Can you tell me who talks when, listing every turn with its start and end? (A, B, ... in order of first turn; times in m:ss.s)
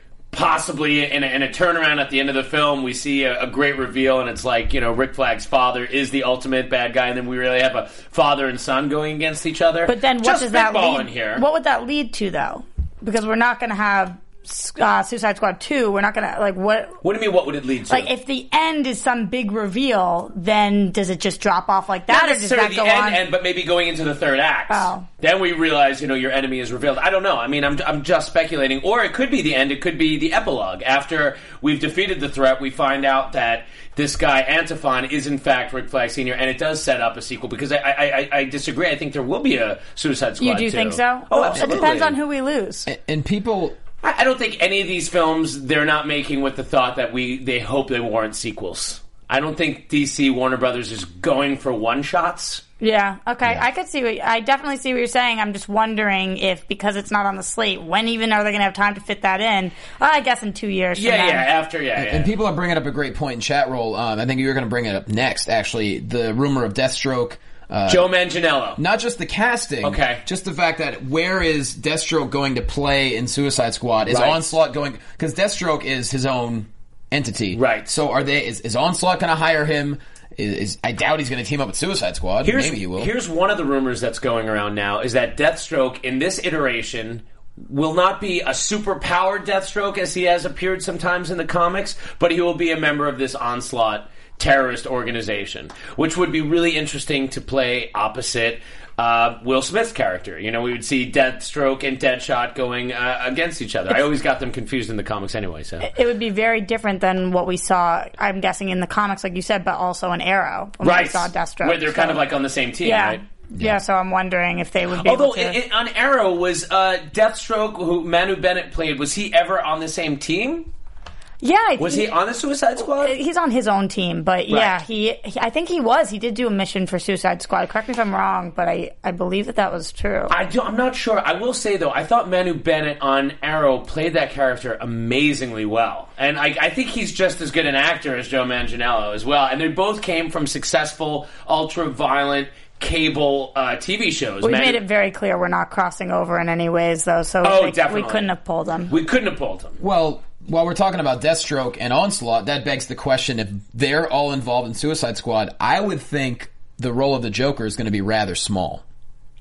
0:00.3-0:11.4 A
0:09.9-0:17.0 B
0:17.0-0:18.1 A
0:17.9-0:23.2 B
0:22.1-0:42.1 A
0:24.7-0:25.0 B
0:40.4-0:42.9 B
0:41.5-0:42.1 C
0:42.8-0:43.8 C
0:44.0-0:52.6 A
0:52.8-1:01.5 B
1:01.0-1:02.3 A
1:02.0-1:08.1 C
1:07.9-1:08.8 A
1:08.8-1:23.1 C
1:09.8-1:10.2 A
1:14.1-1:14.4 A
1:17.5-1:17.9 A
1:22.4-1:45.9 A
1:45.8-1:52.2 B
1:50.8-1:53.2 A
1:52.8-1:55.6 B
1:54.9-2:00.7 A
2:01.4-2:02.1 B
2:01.8-2:03.1 A
2:02.8-2:10.3 B
2:04.5-2:04.8 A
2:10.3-2:24.8 A
2:24.4-2:28.9 B
2:27.4-2:28.3 A
2:28.9-2:29.8 A
2:29.8-2:38.8 C